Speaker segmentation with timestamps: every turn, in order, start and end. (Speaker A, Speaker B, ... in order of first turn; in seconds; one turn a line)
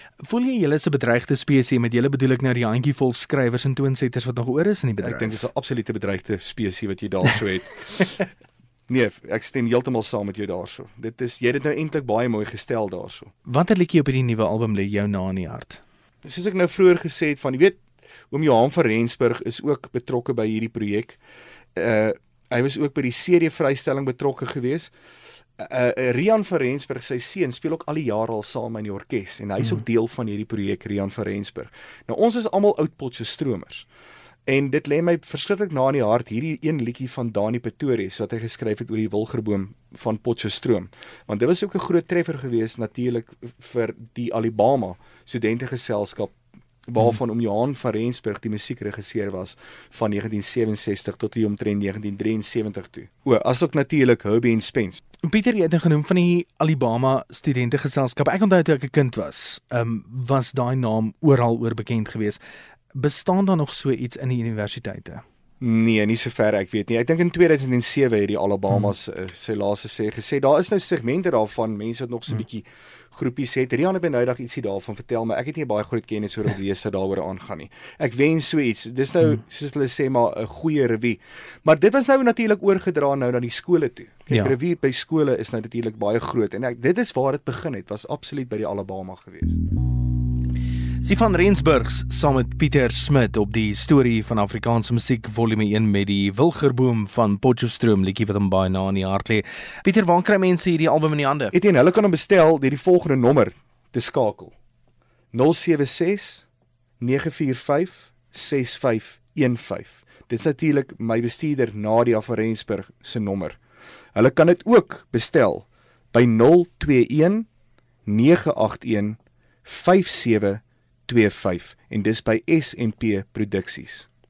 Speaker A: 0.2-5.4
Speaker B: 5.0-8.2
Speaker B: 8.9-13.3
Speaker A: 13.5-15.8
Speaker B: 16.2-21.2
Speaker B: 21.8-24.9
Speaker B: 25.6-33.9
Speaker B: 34.5-46.4
Speaker B: 46.9-55.0
Speaker A: 55.2-62.4
Speaker A: 62.9-65.2
Speaker B: 65.6-89.6
Speaker A: 91.0-101.5
Speaker B: 101.5-104.5
Speaker B: 105.3-106.5
Speaker B: 107.0-113.6
Speaker B: 114.2-117.5
Speaker B: 118.1-124.1